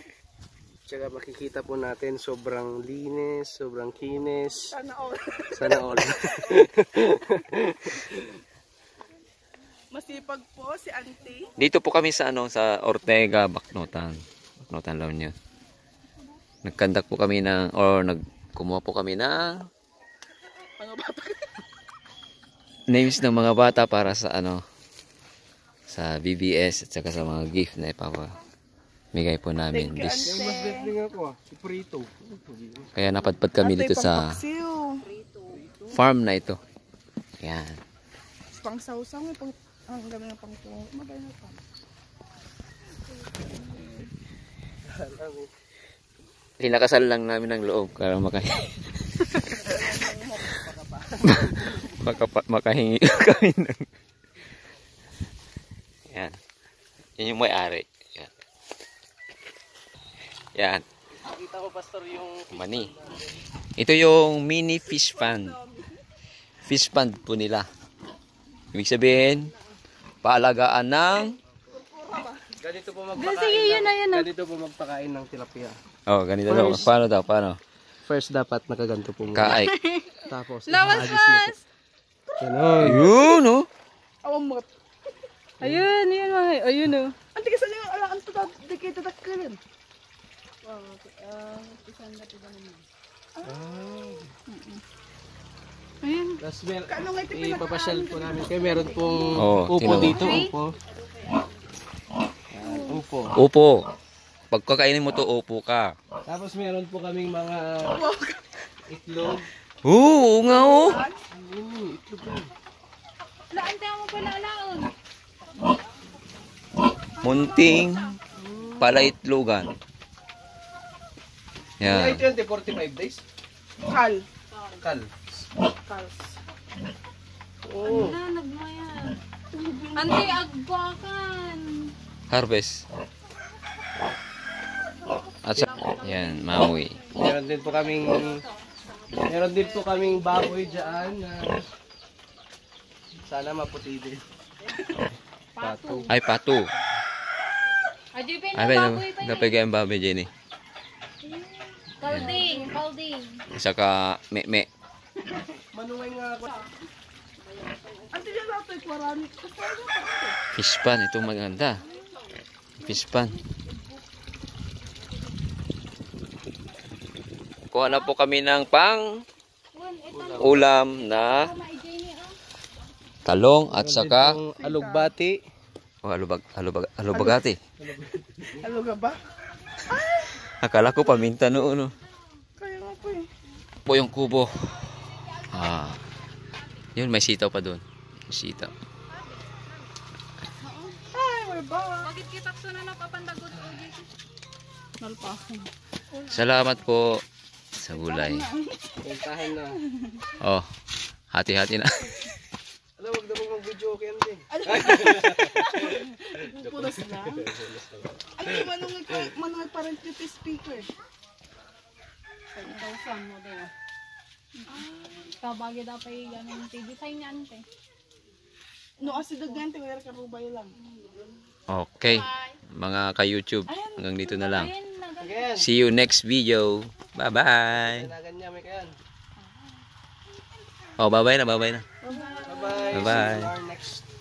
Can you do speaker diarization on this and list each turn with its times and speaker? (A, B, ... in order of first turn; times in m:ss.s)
0:00.9-0:04.7 A
0:04.5-0:06.6 B
0:05.5-0:08.4 A
0:09.9-0:11.5 B
0:11.6-0:15.3 C
0:16.6-0:19.6 C
0:20.8-0:21.6 B
0:22.9-0:24.6 C
0:25.9-0:28.4 C
0:29.1-0:30.3 C
0:29.7-0:30.9 B
0:30.2-0:32.9 A
0:32.9-0:34.3 C
0:33.6-0:35.0 B
0:35.1-0:35.6 D
0:35.5-0:36.0 A
0:35.9-0:36.6 C
0:37.4-0:37.8 C
0:38.5-0:41.6 B
0:43.4-0:44.0 B
0:44.9-0:45.5 A
0:46.6-0:48.7 C
0:49.5-0:50.6 B
0:51.2-0:53.9 C
0:56.1-0:56.4 C
0:57.2-0:58.3 C
1:00.6-1:00.8 C
1:01.1-1:03.4 A
1:02.5-1:02.9 C
1:03.8-1:05.6 C
1:05.2-1:05.6 B
1:06.6-1:07.6 C
1:08.7-1:09.5 C
1:10.2-1:11.3 C
1:11.7-1:12.5 B
1:12.6-1:15.8 A
1:13.1-1:14.3 D
1:16.1-1:17.6 C
1:16.4-1:16.9 A
1:18.0-1:19.6 A
1:19.3-1:19.7 C
1:19.6-1:21.6 D
1:20.2-1:21.5 A
1:22.4-1:23.0 A
1:22.8-1:23.7 C
1:22.8-1:23.3 B
1:24.2-1:24.7 B
1:25.6-1:25.8 A
1:25.6-1:27.2 D
1:27.3-1:29.6 B
1:30.6-1:32.8 D
1:33.4-1:33.7 B
1:33.4-1:34.3 A
1:34.5-1:34.8 D
1:36.0-1:36.4 D
1:36.4-1:40.7 A
1:36.9-1:39.4 B
1:39.4-1:40.4 C
1:39.8-1:40.5 D
1:42.5-1:43.4 A
1:43.3-1:43.8 C
1:44.5-1:45.9 C
1:46.2-1:48.0 A
1:47.9-1:48.4 B
1:48.9-1:49.4 A
1:49.8-1:51.0 C
1:50.5-1:51.2 B
1:51.3-1:52.5 A
1:53.5-1:54.9 D
1:57.2-1:58.0 D
1:57.2-1:58.1 C
1:58.4-1:59.1 A
1:58.8-1:59.7 C
2:01.8-2:02.2 C
2:01.8-2:03.2 A
2:03.8-2:04.2 B
2:04.8-2:05.1 A
2:05.8-2:06.3 B
2:07.6-2:08.2 A
2:07.8-2:09.2 D
2:09.5-2:10.4 B
2:09.9-2:11.9 D
2:12.3-2:12.8 C
2:15.4-2:17.0 C
2:15.7-2:18.5 D
2:17.1-2:18.4 A
2:19.2-2:21.7 A
2:20.1-2:20.4 D
2:23.2-2:24.2 A
2:25.5-2:26.1 D
2:25.6-2:26.1 A
2:26.1-2:26.7 C
2:28.1-2:29.6 D
2:28.5-2:30.3 C
2:31.2-2:33.4 D
2:32.1-2:32.4 C
2:33.5-2:34.7 C
2:35.7-2:36.6 A
2:38.1-2:40.4 B
2:40.5-2:41.8 C
2:42.8-2:43.4 C
2:47.7-2:49.0 C
2:49.7-2:52.4 D
2:50.1-2:50.6 A
2:50.4-2:51.5 C
2:53.2-2:54.4 C
2:53.7-2:55.4 A
2:54.5-2:55.1 B
2:56.0-2:57.6 C
2:57.1-2:57.4 B
2:57.8-2:58.6 A
2:58.5-2:59.2 B
2:59.9-3:00.4 B
3:00.6-3:01.9 C
3:02.6-3:03.3 B
3:03.8-3:04.7 C
3:05.5-3:06.0 C
3:07.0-3:08.7 C
3:11.0-3:12.1 B
3:12.0-3:14.1 D
3:15.0-3:15.6 D
3:16.3-3:17.2 C
3:17.8-3:18.4 C
3:17.9-3:19.0 B
3:19.0-3:19.8 A
3:20.4-3:20.7 C
3:21.3-3:22.0 C
3:23.0-3:25.5 A
3:24.5-3:27.5 B
3:26.6-3:28.3 A
3:28.4-3:30.9 B
3:32.5-3:33.7 D
3:34.8-3:37.6 D
3:39.0-3:40.7 B
3:41.7-3:44.7 C
3:43.7-3:44.0 B
3:44.5-3:45.4 D
3:45.2-3:45.7 A
3:45.6-3:48.1 C
3:47.7-3:48.9 A
3:51.0-3:51.8 C
3:52.0-3:53.0 B
3:52.2-3:53.2 D
3:52.4-3:54.0 A
3:52.9-3:53.5 C